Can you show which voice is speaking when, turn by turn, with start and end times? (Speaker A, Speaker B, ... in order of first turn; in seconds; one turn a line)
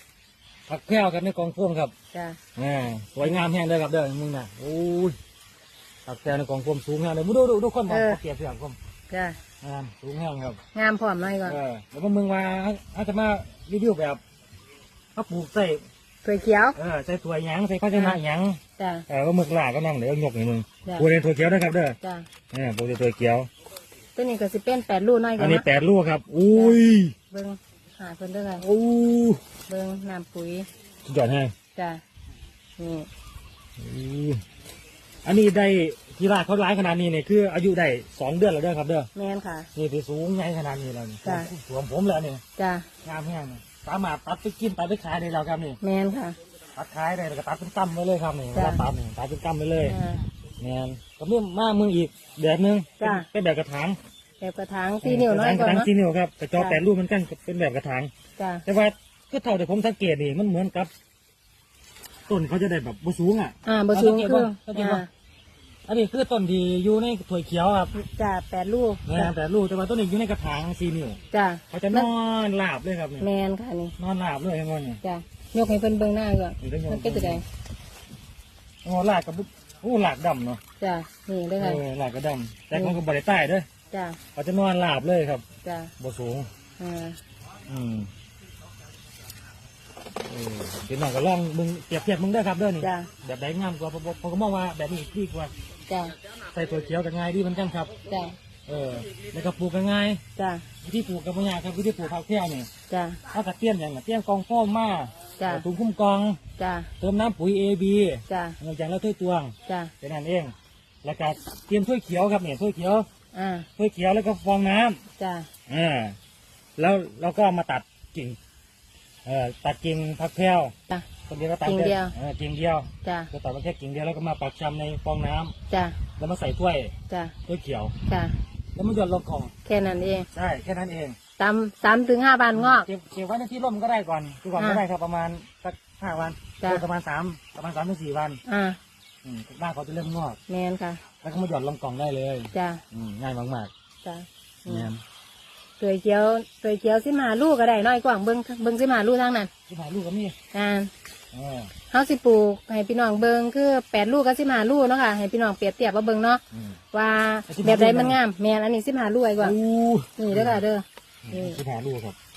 Speaker A: 0.7-1.9
Speaker B: 2.1-2.4
Speaker A: 2.6-5.2
Speaker A: 6.1-8.8
Speaker B: 7.9-8.2
Speaker B: 9.1-9.4
Speaker A: 9.6-10.6
Speaker B: 10.7-11.6
Speaker A: 11.4-14.2
Speaker A: 15.2-15.8
Speaker B: 16.2-16.8
Speaker A: 16.8-22.0
Speaker B: 17.9-18.2
Speaker B: 18.8-19.1
Speaker B: 22.0-22.3
Speaker A: 22.5-23.5
Speaker B: 24.2-25.7
Speaker A: 25.4-27.1
Speaker B: 26.5-26.8
Speaker B: 27.3-28.6
Speaker A: 28.6-29.4
Speaker B: 29.7-30.7
Speaker A: 31.1-31.5
Speaker B: 31.8-32.0
Speaker B: 32.8-33.1
Speaker A: 33.8-34.4
Speaker A: 35.2-39.1
Speaker B: 39.1-39.7
Speaker A: 39.8-42.4
Speaker B: 41.2-41.5
Speaker B: 42.6-42.9
Speaker A: 43.0-45.8
Speaker B: 45.8-46.4
Speaker A: 46.8-50.0
Speaker B: 48.5-48.8
Speaker B: 49.9-50.3
Speaker A: 50.6-54.0
Speaker B: 53.0-53.3
Speaker B: 54.4-55.9
Speaker A: 55.0-58.1
Speaker B: 56.5-56.8
Speaker B: 58.4-58.7
Speaker A: 58.7-60.9
Speaker A: 62.3-65.0
Speaker B: 63.6-65.1
Speaker A: 65.9-68.0
Speaker B: 67.9-69.3
Speaker A: 69.1-73.3
Speaker B: 71.3-72.1
Speaker B: 73.2-74.0
Speaker A: 74.0-75.0
Speaker B: 75.0-77.5
Speaker A: 76.6-77.4
Speaker A: 78.8-80.6
Speaker B: 80.8-81.8
Speaker A: 81.6-83.7
Speaker B: 83.9-84.2
Speaker A: 84.3-85.4
Speaker B: 85.6-85.9
Speaker A: 86.0-86.5
Speaker B: 86.8-87.2
Speaker A: 87.7-88.1
Speaker A: 90.2-95.5
Speaker B: 92.8-93.1
Speaker B: 95.9-96.2
Speaker A: 96.5-98.0
Speaker B: 98.1-98.4
Speaker A: 98.7-100.2
Speaker B: 100.4-100.7
Speaker A: 100.8-102.7
Speaker B: 102.9-103.2
Speaker A: 103.3-106.4
Speaker B: 105.4-105.7
Speaker B: 106.6-106.9
Speaker A: 107.0-113.1
Speaker B: 108.3-108.6
Speaker B: 109.7-109.9
Speaker B: 113.3-113.7
Speaker A: 113.8-115.0
Speaker B: 115.2-115.5
Speaker A: 115.7-116.2
Speaker A: 116.8-118.4
Speaker A: 119.2-120.8
Speaker A: 121.3-125.5
Speaker B: 121.7-122.1
Speaker B: 123.0-123.3
Speaker B: 125.7-126.0
Speaker A: 126.2-126.9
Speaker B: 127.1-127.4
Speaker A: 127.5-128.0
Speaker B: 128.1-128.4
Speaker A: 128.8-129.5
Speaker B: 129.7-130.3
Speaker A: 130.3-131.2
Speaker B: 131.4-132.9
Speaker A: 132.5-138.4
Speaker B: 138.4-138.8
Speaker A: 139.2-140.4
Speaker B: 140.5-141.0
Speaker A: 141.2-143.7
Speaker B: 142.5-142.8
Speaker B: 144.0-144.9
Speaker A: 144.7-145.0
Speaker B: 145.8-149.5
Speaker A: 149.7-150.4
Speaker B: 150.5-150.9
Speaker A: 151.3-151.7
Speaker B: 151.9-159.6
Speaker A: 156.5-156.8
Speaker A: 157.5-158.2
Speaker A: 159.4-160.6
Speaker B: 160.2-161.6
Speaker A: 161.3-162.2